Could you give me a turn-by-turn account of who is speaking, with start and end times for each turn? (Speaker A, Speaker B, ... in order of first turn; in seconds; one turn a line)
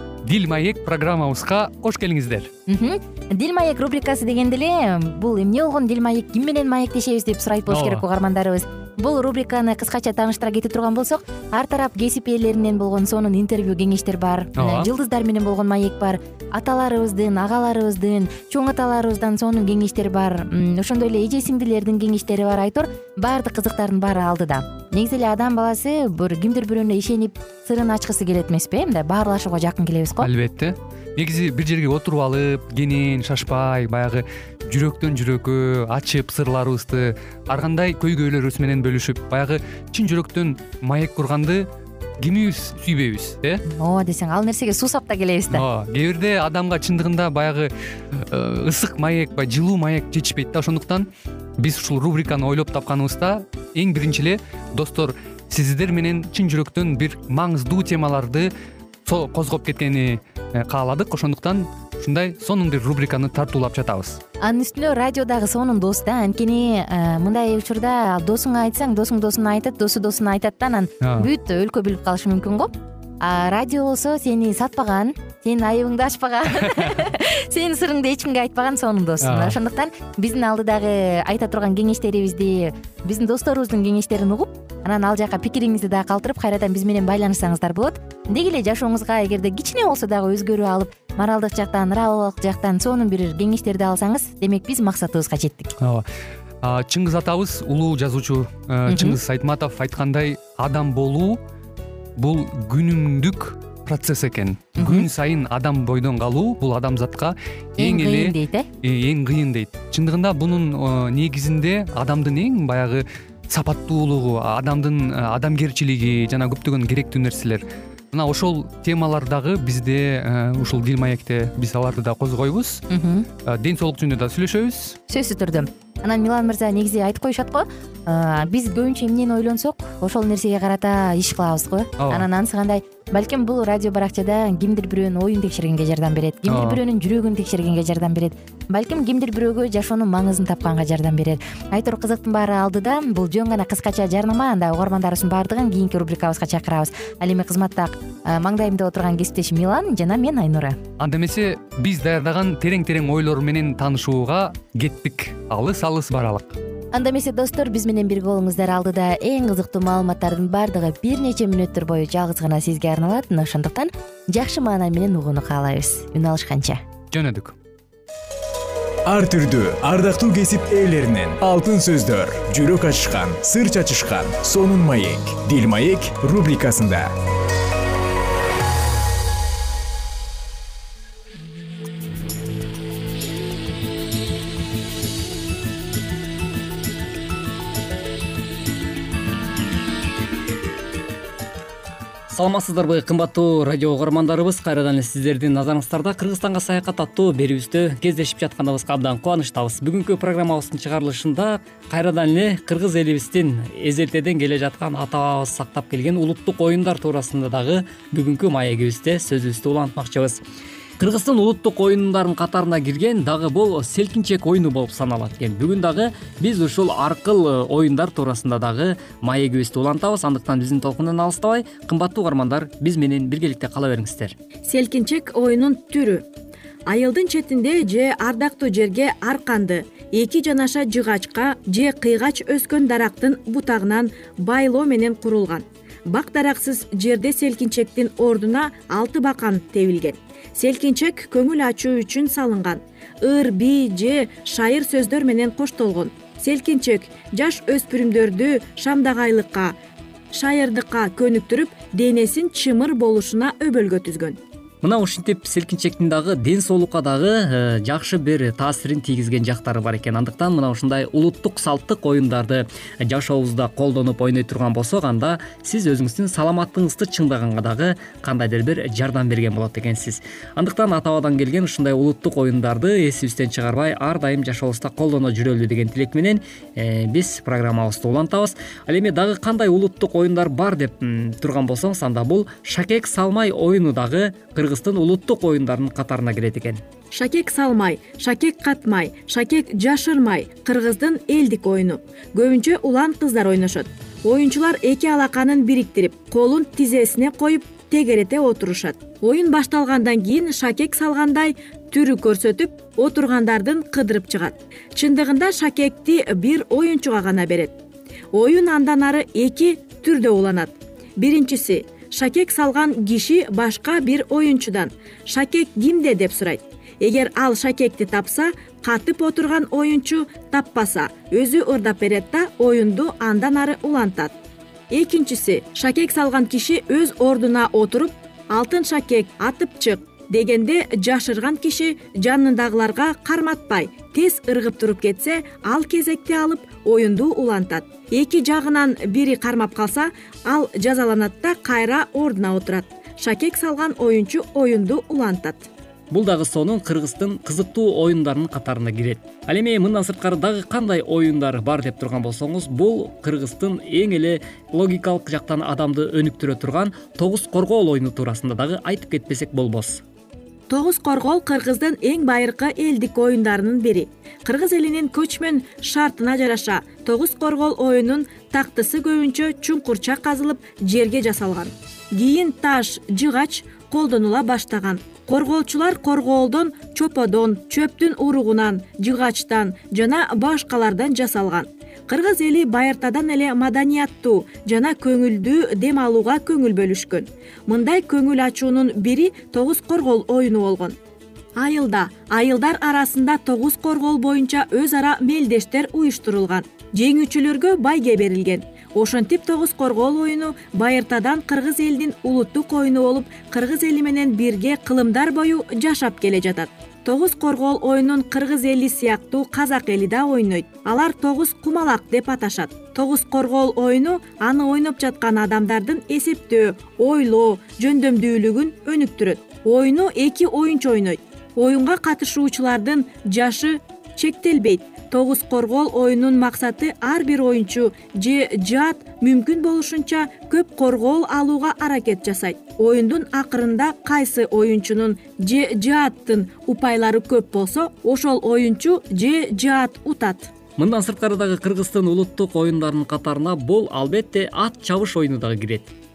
Speaker A: 0.2-2.5
Speaker B: 2.7-30.3
Speaker A: 7.7-8.0
Speaker A: 14.6-14.9
Speaker A: 30.2-41.7
Speaker A: 42.2-43.6
Speaker B: 43.7-45.6
Speaker A: 45.5-51.1
Speaker A: 51.6-58.5
Speaker A: 59.1-64.2
Speaker B: 64.4-95.8
Speaker A: 71.0-71.3
Speaker A: 79.2-79.5
Speaker A: 95.8-96.0
Speaker A: 96.6-101.4
Speaker B: 98.9-99.2
Speaker A: 102.2-122.8
Speaker B: 104.8-105.1
Speaker B: 107.8-108.7
Speaker B: 122.9-123.3
Speaker A: 123.5-125.0
Speaker B: 125.1-150.8
Speaker A: 132.0-132.3
Speaker A: 136.5-136.8
Speaker A: 151.0-156.6
Speaker B: 156.9-166.8
Speaker A: 167.1-167.6
Speaker C: 169.1-177.1
Speaker D: 192.3-210.4
Speaker D: 211.0-224.3
Speaker E: 224.7-226.2
Speaker E: 226.9-249.8
Speaker E: 250.3-254.4
Speaker D: 254.8-286.8
Speaker E: 287.1-307.8
Speaker E: 308.3-324.3
Speaker E: 324.9-345.7
Speaker D: 346.1-360.0
Speaker E: 360.7-391.0
Speaker E: 391.6-440.5
Speaker D: 440.8-445.9